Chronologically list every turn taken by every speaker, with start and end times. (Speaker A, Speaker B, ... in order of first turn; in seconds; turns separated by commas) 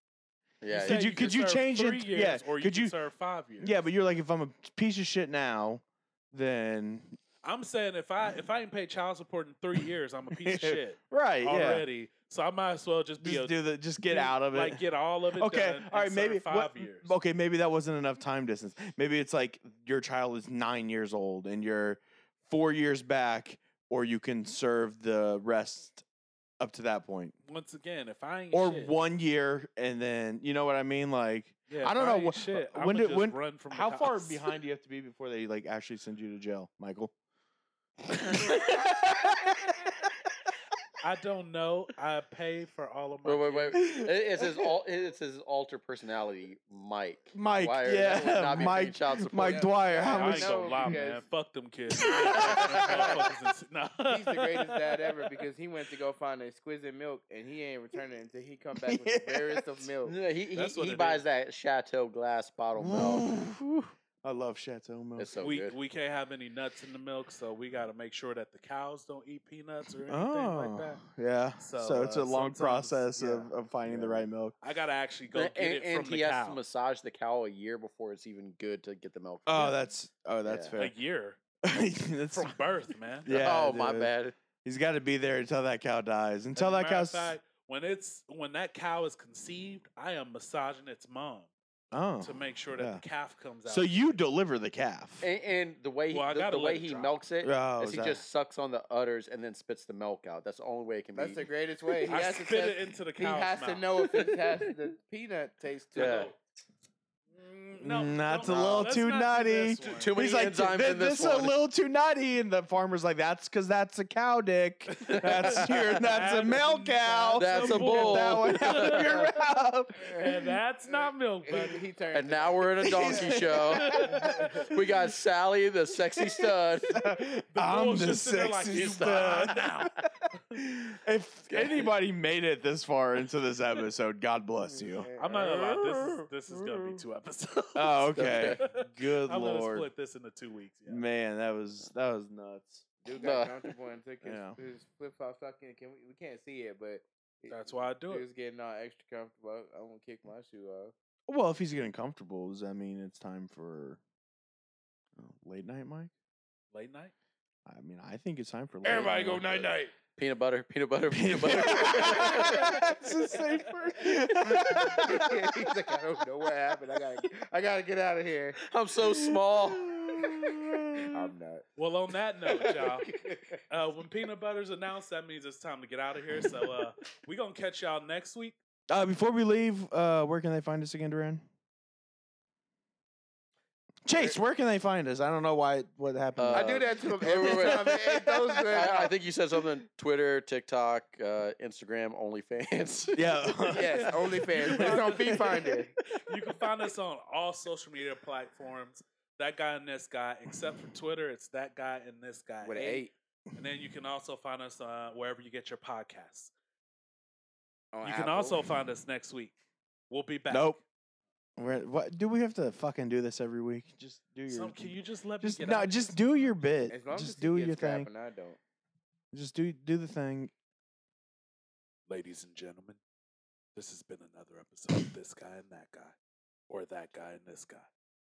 Speaker A: 0.6-1.1, Speaker B: 0.7-3.8, Speaker C: 0.8-2.9, Speaker C: 3.6-7.2, Speaker B: 7.4-17.1, Speaker C: 10.4-11.8, Speaker C: 13.2-14.8, Speaker C: 15.3-26.0, Speaker C: 26.6-27.4, Speaker B: 27.5-28.9, Speaker C: 28.5-37.1, Speaker B: 31.7-34.5, Speaker C: 38.1-40.1, Speaker B: 41.0-43.8, Speaker A: 43.2-49.7, Speaker C: 43.8-44.6, Speaker C: 47.3-51.0, Speaker D: 49.4-51.2, Speaker B: 50.1-54.7, Speaker C: 52.0-53.1, Speaker A: 52.4-53.1, Speaker D: 54.1-60.2, Speaker C: 58.8-59.8, Speaker A: 60.0-63.3, Speaker B: 60.5-61.2, Speaker C: 62.8-65.3, Speaker A: 65.2-65.8, Speaker B: 65.4-71.0, Speaker C: 70.1-74.5, Speaker B: 71.6-76.6, Speaker A: 75.3-79.8, Speaker C: 79.5-80.9, Speaker A: 80.5-80.7, Speaker B: 80.8-81.4, Speaker C: 81.6-82.5, Speaker B: 82.3-83.5, Speaker C: 83.2-84.1, Speaker A: 83.4-84.4, Speaker C: 84.6-87.3, Speaker B: 86.6-91.5, Speaker C: 91.9-93.0, Speaker B: 92.2-93.9, Speaker C: 93.7-95.3, Speaker A: 95.2-101.5, Speaker B: 96.1-97.2, Speaker C: 97.4-98.2, Speaker D: 101.1-106.3, Speaker B: 102.1-103.9, Speaker A: 104.1-104.5, Speaker A: 106.0-106.3, Speaker B: 106.0-106.4, Speaker B: 107.3-110.2, Speaker C: 107.8-120.3, Speaker A: 108.4-108.9, Speaker A: 109.8-111.6, Speaker B: 114.9-119.3, Speaker A: 115.0-116.0, Speaker A: 117.4-119.3, Speaker D: 120.0-120.3, Speaker B: 120.2-121.8, Speaker D: 120.9-123.3, Speaker A: 122.1-124.0, Speaker C: 122.8-124.3, Speaker B: 123.6-124.7, Speaker D: 124.1-124.7, Speaker A: 124.7-127.0, Speaker C: 126.2-135.1, Speaker B: 127.5-129.9, Speaker A: 128.7-129.9, Speaker A: 131.4-131.9, Speaker D: 134.6-135.8, Speaker B: 135.2-141.0, Speaker C: 137.8-139.9, Speaker A: 138.1-138.6, Speaker C: 140.9-142.9, Speaker D: 143.0-150.9, Speaker A: 143.2-143.6, Speaker C: 144.2-144.6, Speaker B: 147.5-148.2, Speaker C: 151.3-154.0, Speaker C: 155.2-156.1, Speaker B: 156.7-157.1, Speaker C: 157.7-159.7, Speaker D: 158.8-159.9, Speaker A: 160.2-162.8, Speaker C: 161.1-165.7, Speaker D: 162.1-162.8, Speaker D: 164.6-168.6, Speaker A: 168.7-169.9, Speaker C: 169.1-171.3, Speaker D: 171.1-171.7, Speaker B: 171.8-173.1, Speaker D: 172.4-173.6, Speaker B: 173.7-178.6, Speaker C: 178.9-181.4, Speaker C: 184.1-188.3, Speaker A: 186.4-188.0, Speaker D: 186.5-189.1, Speaker A: 188.7-193.4, Speaker C: 193.1-195.7, Speaker D: 193.7-195.9, Speaker B: 193.7-195.4, Speaker B: 196.3-206.5, Speaker D: 202.6-203.1, Speaker D: 207.9-208.6, Speaker B: 208.0-209.5, Speaker B: 210.1-210.8, Speaker C: 210.5-210.8, Speaker C: 211.6-218.1, Speaker B: 214.5-216.7, Speaker D: 216.9-218.6, Speaker C: 219.3-220.5, Speaker B: 222.1-223.0, Speaker B: 223.8-226.2, Speaker B: 226.7-227.9